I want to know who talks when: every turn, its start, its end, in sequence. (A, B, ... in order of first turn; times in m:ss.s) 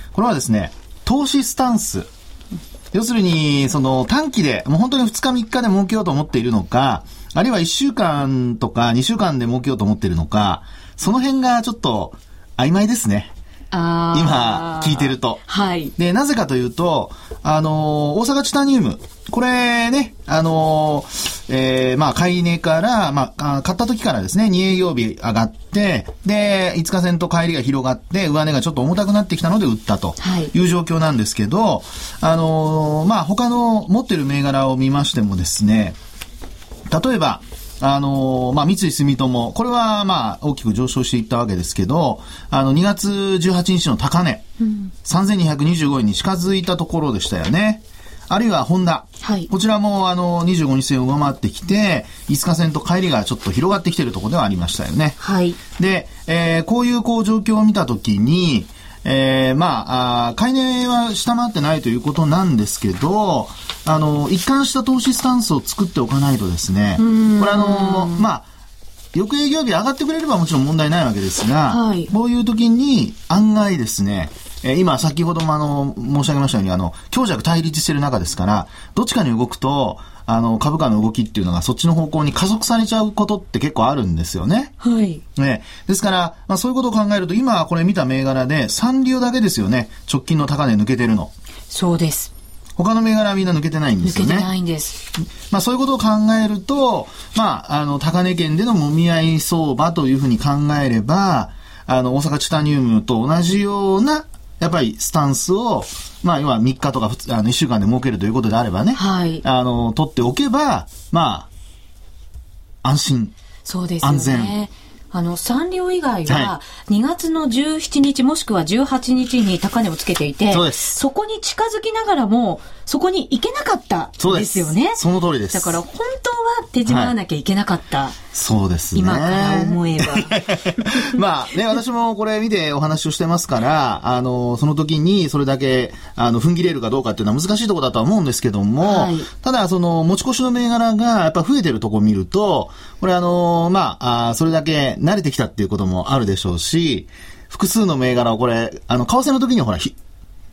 0:00.1-0:02.1 A
0:02.9-0:13.3 A
0:13.7-0:15.9 B
0:14.1-0:15.4 A
0:16.0-0:36.0 A
0:30.2-0:30.5 B
0:36.9-0:44.5 A
0:45.0-0:55.2 A
0:49.2-0:49.5 B
0:55.2-0:55.6 B
0:55.8-1:08.4 A
1:07.0-1:08.2 B
1:09.1-1:24.7 A
1:11.7-1:12.1 B
1:24.8-1:25.2 B
1:25.4-1:31.3 A
1:31.7-1:32.3 B
1:32.8-1:34.5 A
1:34.0-1:35.0 B
1:35.5-1:51.5 A
1:48.9-1:49.4 B
1:52.8-1:53.3 A
1:53.6-2:05.0 B
1:54.0-1:54.5 A
1:56.3-1:56.5 A
2:00.5-2:01.0 A
2:04.2-2:05.8 A
2:05.5-2:08.2 B
2:06.8-2:07.1 A
2:08.3-2:30.0 A
2:08.9-2:10.4 B
2:18.8-2:19.3 B